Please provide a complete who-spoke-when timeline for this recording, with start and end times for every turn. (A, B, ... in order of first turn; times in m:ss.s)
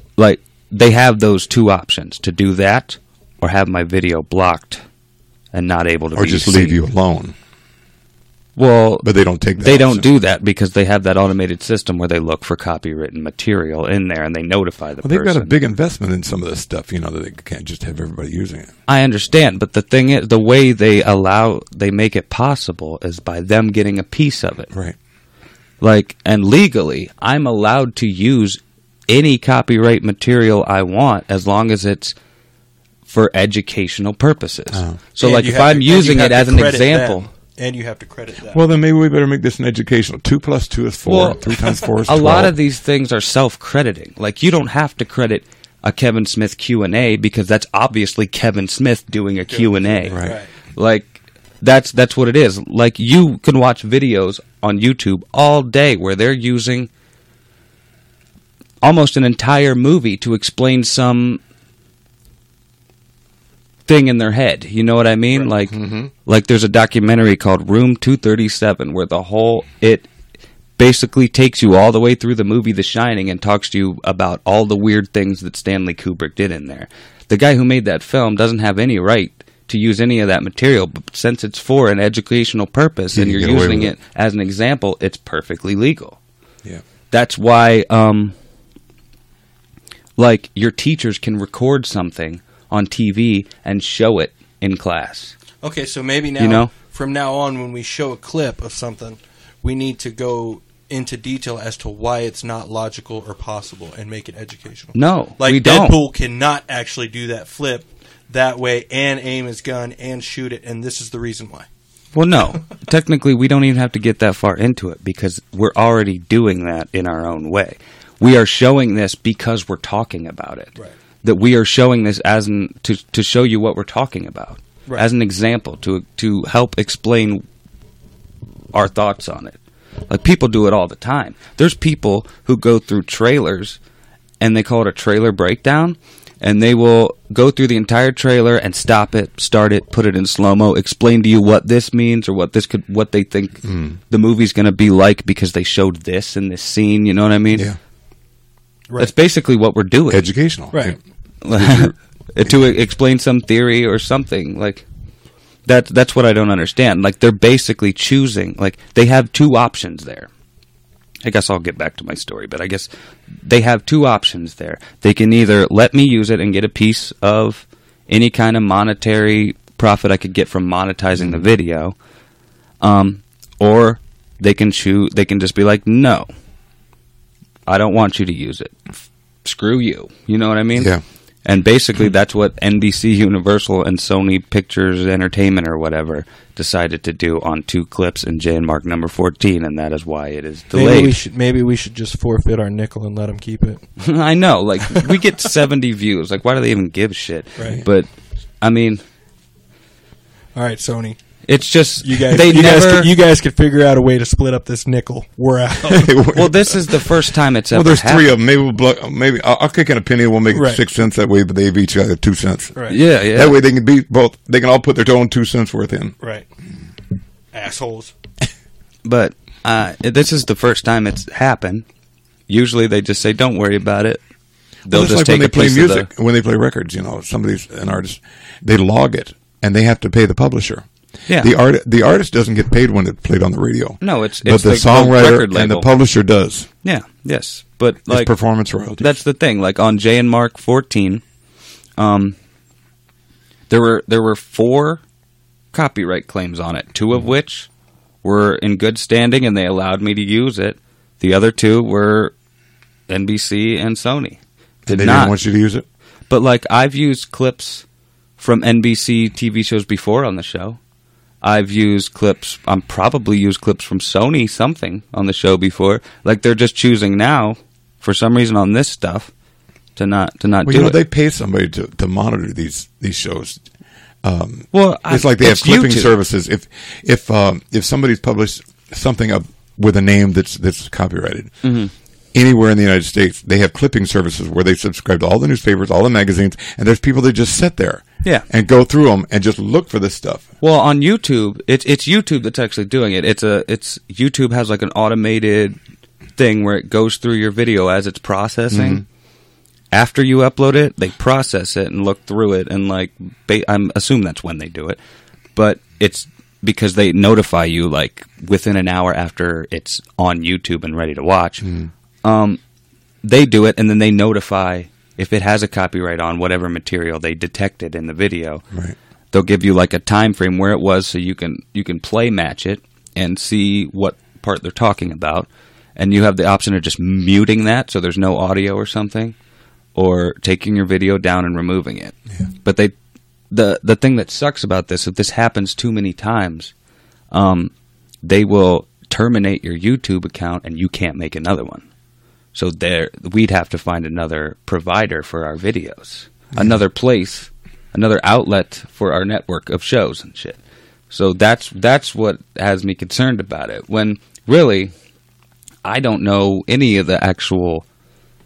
0:00.2-0:04.8 A
0:05.5-0:06.8 A
0:06.1-0:07.4 B
0:08.6-0:09.0 A
0:09.0-0:10.1 B
0:09.6-0:15.5 A
0:15.0-0:18.7 B
0:18.9-0:24.7 A
0:25.8-0:32.2 A
0:33.1-0:37.2 A
0:34.7-0:35.0 B
0:35.2-0:38.6 C
0:38.5-0:42.5 B
0:41.0-0:41.4 A
0:42.0-0:50.2 A
0:49.5-0:50.5 C
0:50.1-0:50.4 B
0:50.7-0:56.9 A
0:58.8-1:01.4 A
1:03.9-1:10.1 A
1:05.7-1:06.1 B
1:10.8-1:26.2 A
1:23.1-1:23.9 B
1:27.1-1:28.3 A
1:30.2-1:35.3 A
1:35.6-1:51.7 C
1:36.4-1:36.7 A
1:44.9-1:46.0 A
1:52.1-2:07.4 A
2:08.7-2:09.6 A
2:10.1-2:13.8 A
2:14.4-2:27.7 A
2:23.6-2:24.0 B
2:29.0-2:30.3 A
2:30.1-2:31.0 B
2:30.7-2:31.0 C
2:31.4-2:34.8 A
2:31.5-2:32.6 B
2:35.7-2:40.3 A
2:41.2-2:42.9 A
2:43.4-2:51.9 A
2:51.2-2:51.5 B
2:52.8-2:56.3 A
2:57.7-2:58.8 A
2:59.4-3:00.9 A
3:00.7-3:01.0 B
3:01.4-3:11.2 A
3:10.7-3:13.8 C
3:14.0-3:18.1 A
3:18.6-3:19.0 A
3:20.5-3:21.2 C
3:21.4-3:23.1 A
3:22.0-3:26.2 C
3:25.8-3:26.8 B
3:26.3-3:28.3 A
3:27.7-3:36.1 B
3:30.5-3:30.8 C
3:32.9-3:33.6 A
3:36.2-3:36.4 C
3:37.5-3:38.1 C
3:39.0-3:41.8 A
3:42.5-3:44.2 A
3:44.8-3:46.1 A
3:44.9-3:50.8 B
3:51.3-3:51.5 A
3:51.4-3:56.7 B
3:54.0-3:55.9 A
3:56.8-3:58.3 A
3:58.1-3:59.2 B
3:59.0-4:01.2 A
4:02.0-4:02.4 A
4:03.7-4:05.0 A
4:05.7-4:07.7 A
4:08.2-4:12.3 A
4:13.1-4:15.3 A
4:14.8-4:15.8 B
4:16.3-4:17.8 A
4:18.4-4:20.8 A
4:21.4-4:29.3 A
4:30.0-4:31.0 A
4:30.6-4:33.6 B
4:34.2-4:41.5 B
4:34.7-4:36.1 A
4:41.6-4:41.9 A
4:42.3-4:50.5 B
4:50.6-4:55.8 A
4:56.4-4:59.0 A
4:58.7-4:59.0 B
4:59.9-5:05.0 A
5:05.6-5:11.7 A
5:11.6-5:11.9 B
5:12.2-5:12.6 A
5:13.2-5:18.6 A
5:19.3-5:29.3 A
5:29.9-5:32.9 A
5:33.5-5:36.7 A
5:37.3-5:37.7 A
5:38.2-5:41.8 A
5:42.5-5:50.6 A
5:51.1-5:54.9 A
5:55.8-5:57.8 A